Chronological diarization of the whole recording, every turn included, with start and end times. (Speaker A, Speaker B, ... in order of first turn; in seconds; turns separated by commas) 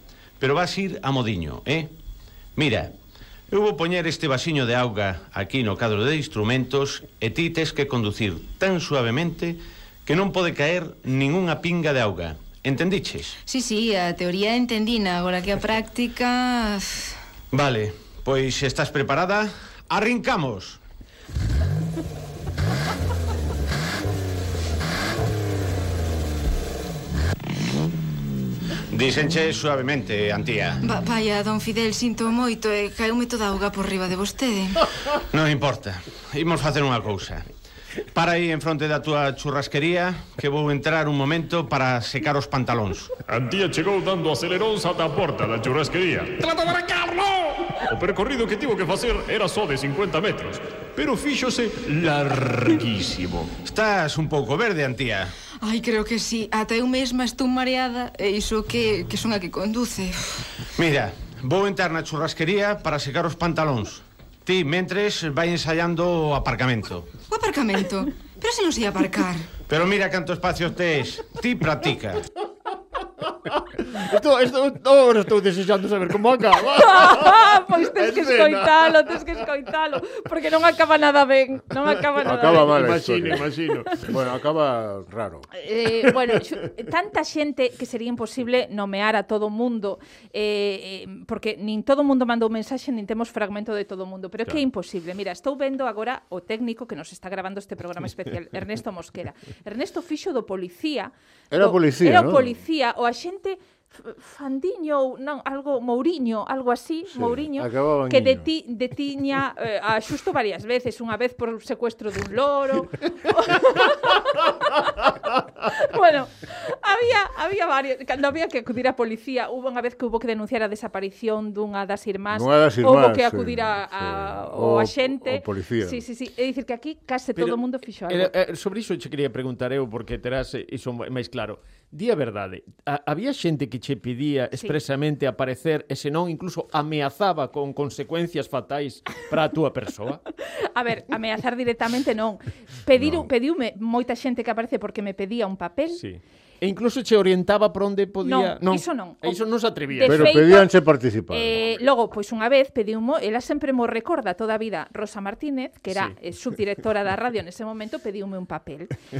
Speaker A: 0.4-1.9, Speaker A: 2.6-2.9, Speaker A: 3.5-13.3, Speaker B: 13.4-17.1, Speaker A: 17.5-20.8, Speaker A: 28.9-30.8, Speaker B: 30.8-34.8, Speaker A: 35.3-37.5, Speaker A: 38.1-43.1, Speaker C: 43.3-46.5, Speaker C: 47.9-53.5, Speaker A: 53.6-55.3, Speaker B: 55.6-60.3, Speaker A: 60.8-67.1, Speaker B: 67.3-69.5, Speaker A: 69.7-72.3, Speaker D: 73.9-79.2, Speaker E: 76.8-82.8, Speaker F: 82.2-83.5, Speaker D: 82.2-84.1, Speaker F: 84.0-85.5, Speaker E: 85.5-115.0, Speaker F: 101.5-102.5, Speaker F: 107.1-108.5, Speaker E: 115.7-128.3, Speaker F: 122.3-126.0, Speaker D: 127.4-140.2, Speaker E: 140.7-146.0, Speaker F: 143.0-143.3, Speaker D: 145.9-150.4, Speaker E: 148.2-149.4, Speaker E: 149.9-150.7, Speaker F: 150.0-151.6, Speaker E: 151.3-158.9